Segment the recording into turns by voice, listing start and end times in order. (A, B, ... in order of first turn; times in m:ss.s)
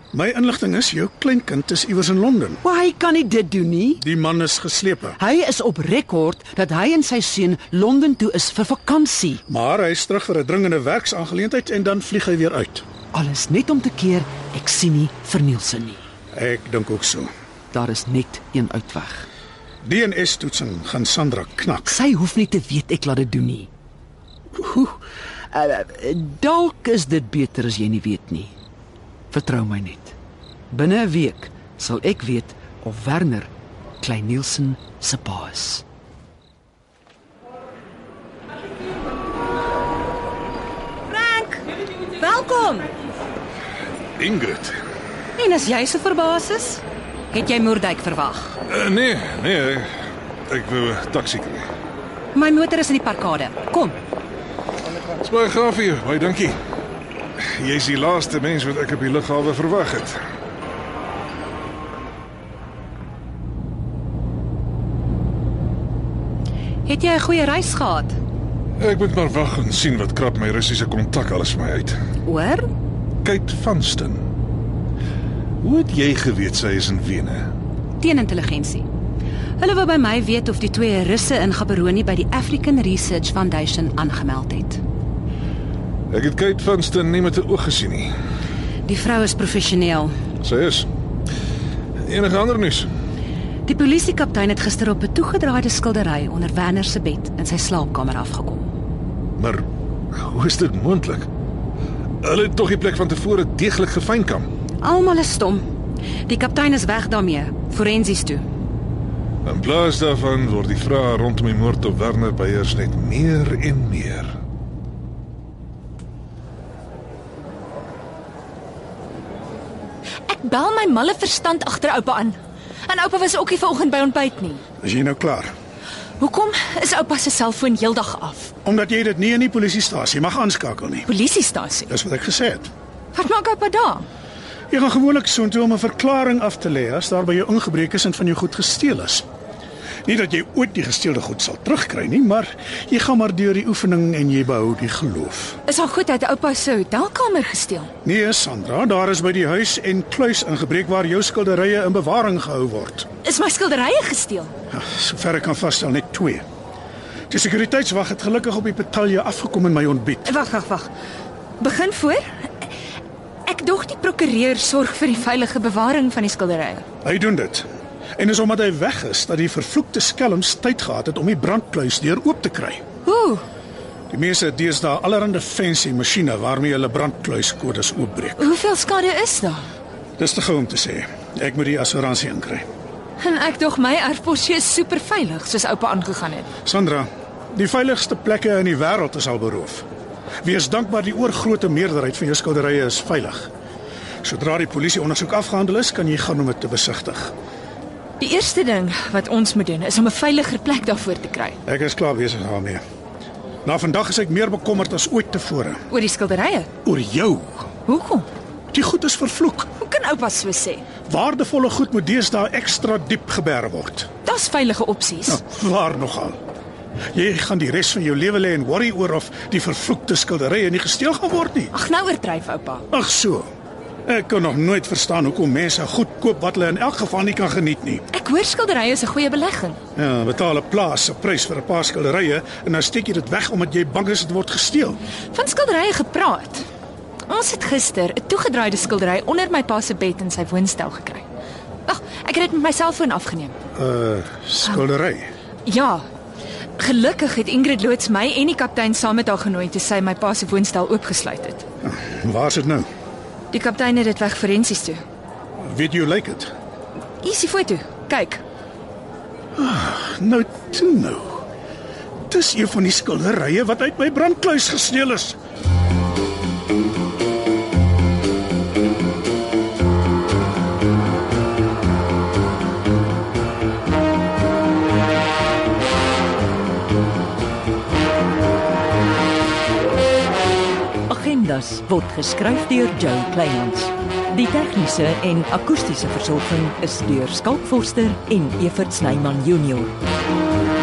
0:00.1-0:02.6 A
0:02.6-0:04.0 B
0:04.0-0:05.2 A
0:05.2-0:09.4 B
0:09.5-0:12.8 A
0:13.1-0:16.0 B
0:16.3-0:17.3 A
0:17.7-0:19.3 B
0:19.8-0:22.0 A
0:21.9-0:23.7 B
0:24.6-0:25.0 B
0:25.5-0:28.5 B
0:29.3-0:30.2 B
0:30.7-0:35.8 B
0:41.1-0:42.9 C
0:44.2-0:44.7 D
0:45.4-0:48.5 C
0:48.7-0:49.9 D
0:50.5-0:51.7 D
0:52.3-0:54.0 C
0:55.2-0:56.6 D
0:57.6-1:00.2 D
1:06.9-1:08.2 C
1:08.8-1:12.0 D
1:12.2-1:12.7 C
1:13.2-1:14.2 D
1:15.6-1:17.5 D
1:18.0-1:18.9 C
1:19.6-1:24.8 C
1:26.1-1:28.1 D
1:28.9-1:30.1 C
1:30.4-1:30.9 D
1:32.0-1:32.9 D
1:33.7-1:38.7 C
1:39.4-1:39.6 D
1:40.2-1:41.3 D
1:42.2-1:44.5 D
1:44.8-1:45.7 C
1:46.3-1:48.4 C
1:49.5-1:54.3 D
2:00.3-2:04.6 E
2:04.8-2:05.5 A
2:06.2-2:08.5 E
2:08.6-2:11.1 A
2:11.1-2:11.9 E
2:11.9-2:12.7 A
2:13.1-2:14.1 E
2:14.7-2:19.2 A
2:20.1-2:25.6 A
2:25.7-2:27.9 E
2:28.0-2:33.1 A
2:33.2-2:34.5 E
2:34.7-2:36.4 A
2:37.3-2:40.3 A
2:40.3-2:40.9 E
2:41.6-2:42.7 E
2:43.5-2:46.8 E
2:47.0-2:47.7 A
2:48.2-2:52.8 A
2:53.0-2:53.4 E
2:54.1-2:58.4 A
2:58.4-2:59.7 E
3:00.2-3:02.6 A
3:03.2-3:06.5 E
3:06.6-3:09.8 A
3:10.4-3:13.5 A
3:14.2-3:17.3 A
3:18.2-3:21.6 E
3:21.6-3:22.8 A
3:23.6-3:25.8 A
3:25.9-3:26.7 E
3:26.8-3:27.7 A
3:27.8-3:28.3 E
3:28.7-3:29.7 A
3:29.8-3:30.8 E
3:31.1-3:34.1 A
3:34.2-3:35.4 E
3:35.3-3:36.4 A
3:37.1-3:41.7 A
3:41.7-3:42.8 E
3:42.9-3:43.5 A
3:44.1-3:48.0 A
3:48.1-3:49.8 E
3:50.0-3:55.0 A
3:55.3-3:56.7 E
3:57.3-4:01.2 E
4:01.9-4:03.5 E
4:03.8-4:05.3 A
4:05.7-4:06.0 E
4:06.8-4:11.6 E
4:11.8-4:12.9 A
4:13.5-4:15.0 E
4:15.6-4:16.5 A
4:17.2-4:18.4 E
4:19.6-4:21.4 A
4:22.3-4:25.4 A
4:41.1-4:50.0 F